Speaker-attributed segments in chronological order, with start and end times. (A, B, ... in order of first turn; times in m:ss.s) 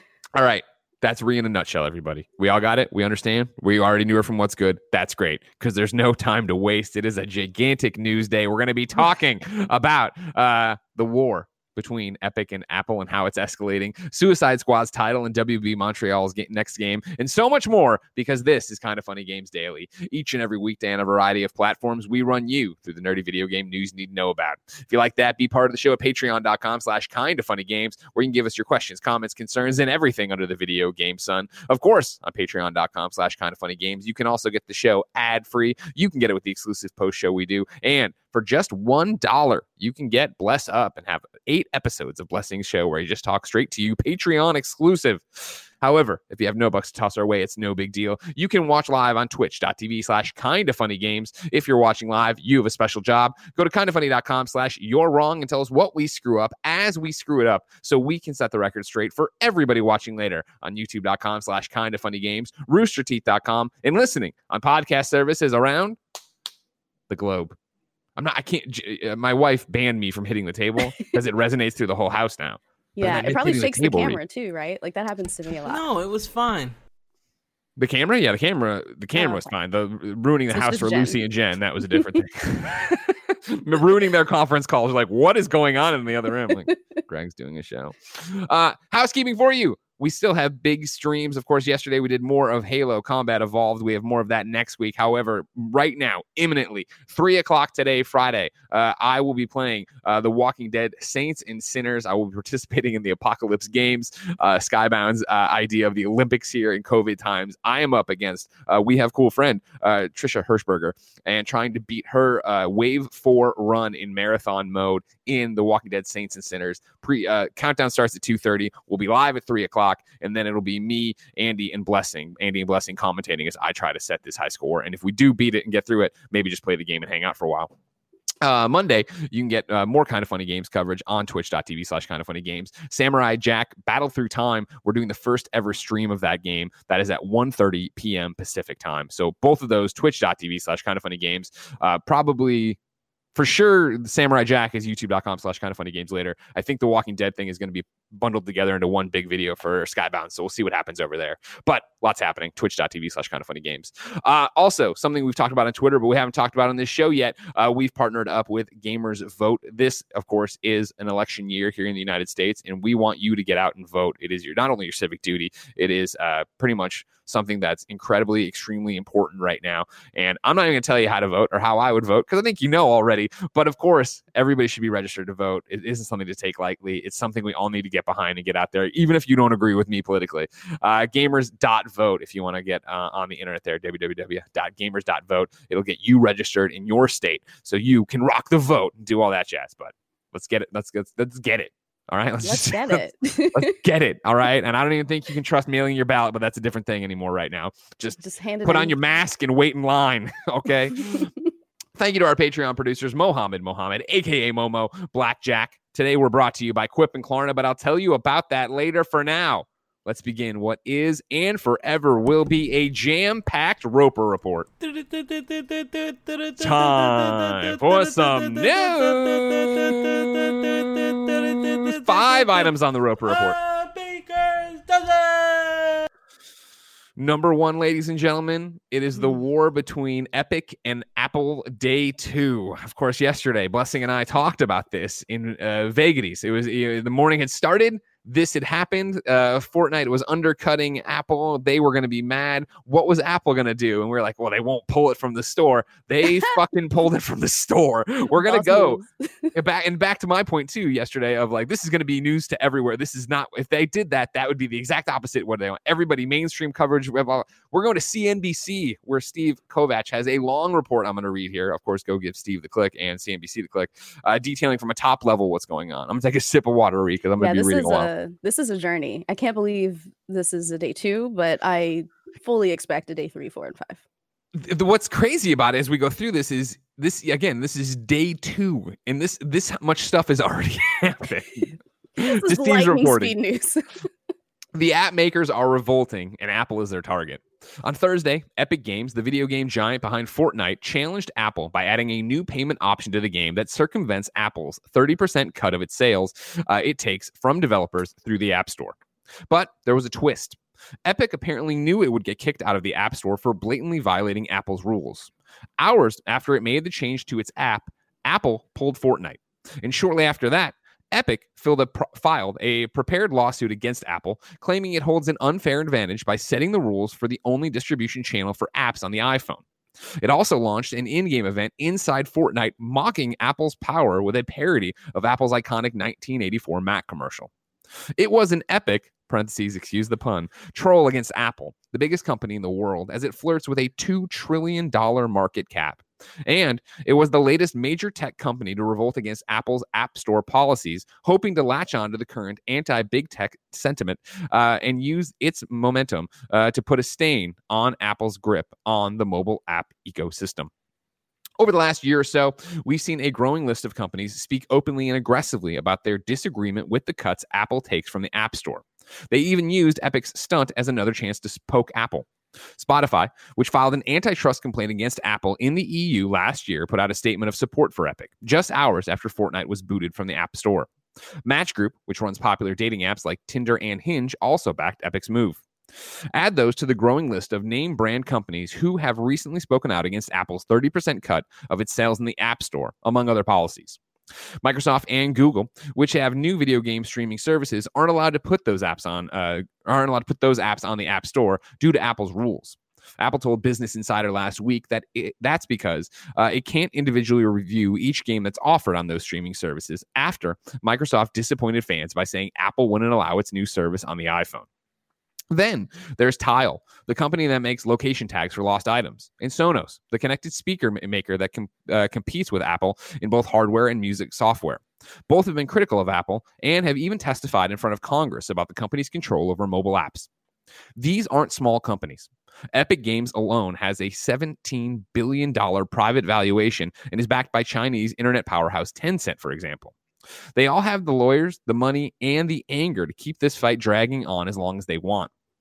0:00.3-1:06.0 A
1:07.1-1:07.6 A
1:08.2-1:14.2 A
1:13.0-1:15.8 B
1:15.6-1:16.8 C
1:17.8-2:07.7 A
1:19.2-1:19.5 B
1:20.5-1:21.2 B
1:21.9-1:22.2 B
2:08.4-2:22.8 A
2:23.3-3:13.0 A
3:12.4-3:13.8 B
3:13.5-3:21.3 A
3:18.2-3:19.0 B
3:21.0-3:21.3 B
3:22.0-3:34.7 A
3:34.8-3:42.7 C
3:36.6-3:43.6 A
3:43.2-3:46.1 C
3:47.2-4:09.0 A
4:08.3-4:09.5 B
4:09.5-4:28.1 A
4:27.4-4:34.0 B
4:34.5-4:43.4 A
4:42.2-4:44.1 B
4:44.7-4:59.0 A
4:59.5-5:19.6 A
5:20.2-5:27.5 A
5:28.2-5:50.7 A
5:51.6-6:10.9 A
6:11.4-6:15.6 A
6:16.3-6:24.0 A
6:24.6-6:44.7 A
6:45.5-7:00.3 A
7:01.0-7:09.9 A
7:10.6-7:15.3 A